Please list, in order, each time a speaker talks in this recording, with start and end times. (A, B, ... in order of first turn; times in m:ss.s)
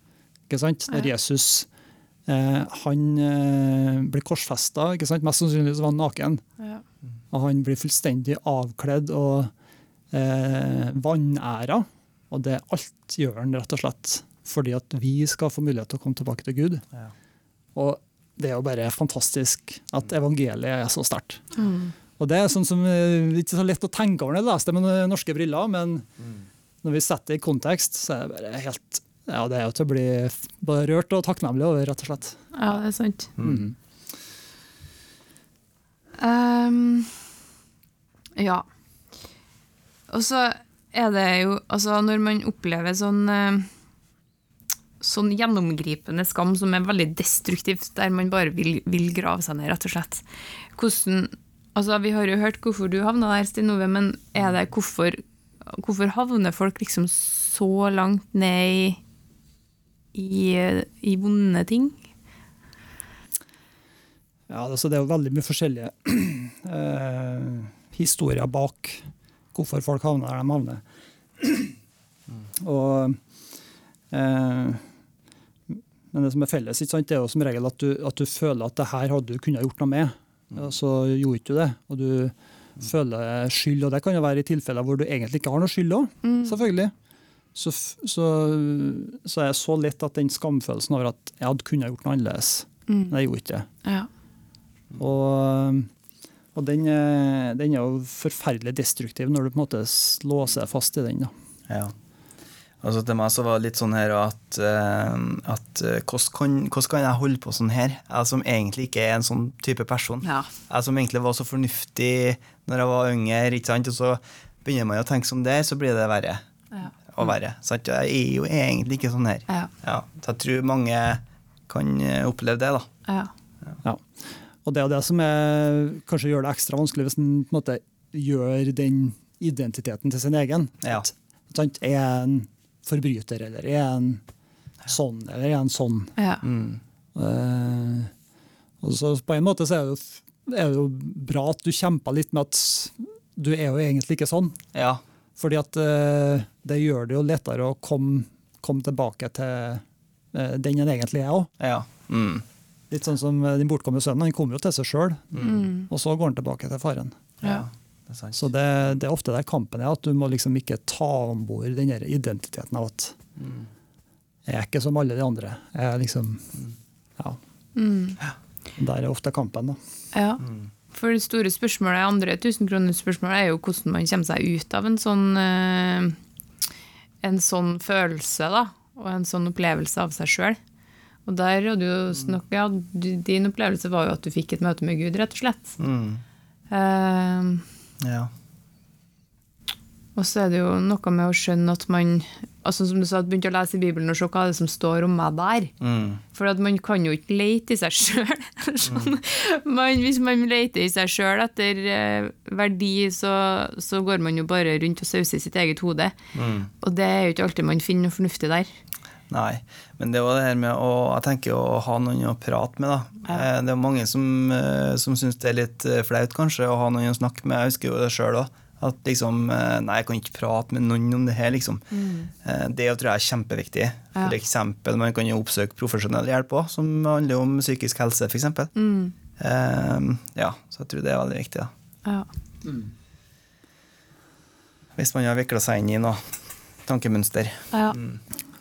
0:00.5-0:01.7 A
0:02.3-0:06.4 A
0:07.3-0:09.5 A
0:10.1-0:16.8 A
0:17.7-0:21.4 A
0:21.6-0:21.9 B
0:22.2-0:26.1 A
0:26.8-0:32.4 A
0:32.5-0:33.3 B
0:33.4-0:33.6 C
0:33.4-0:33.7 A
0:36.2-0:37.2 B
0:38.4-0:38.6 B
0:40.1-0:43.7 B
0:45.0-0:59.0 B
1:00.1-1:02.0 B
1:04.5-1:10.8 A
1:11.4-1:11.8 A
1:12.6-1:13.2 A
1:14.1-1:14.8 A
1:15.7-1:26.9 A
1:26.2-1:26.6 B
1:27.5-1:33.7 A
1:32.9-1:33.1 B
1:35.0-1:35.9 A
1:36.5-1:41.3 A
1:41.7-1:41.9 C
1:42.8-1:56.4 C
1:50.2-1:50.5 B
1:57.0-2:02.9 C
2:03.0-2:03.3 B
2:03.8-2:14.2 A
2:14.9-2:16.1 A
2:16.2-2:16.4 B
2:16.4-2:16.8 C
2:17.1-2:18.1 A
2:18.8-2:24.6 A
2:24.7-2:25.0 C
2:25.4-2:31.5 A
2:31.6-2:32.4 C
2:32.9-2:37.3 A
2:35.3-2:35.7 C
2:35.4-2:35.9 B
2:37.4-2:38.4 C
2:38.3-2:43.2 A
2:43.4-2:43.7 C
2:44.4-2:46.6 A
2:47.8-2:48.2 B
2:48.8-2:49.8 A
2:50.1-2:56.2 B
2:57.2-3:00.6 B
3:01.2-3:05.8 B
3:05.8-3:06.2 C
3:06.7-3:07.6 B
3:08.0-3:08.3 C
3:10.1-3:15.7 B
3:15.8-3:16.2 C
3:16.3-3:26.2 B
3:18.8-3:19.1 C
3:26.3-3:26.7 C
3:26.8-3:28.7 B
3:29.3-3:41.8 C
3:41.9-3:42.3 B
3:42.4-3:48.7 C
3:48.8-3:49.1 B
3:49.4-3:51.7 C
3:55.0-3:56.2 C
3:56.8-3:58.2 C
3:57.7-3:58.0 B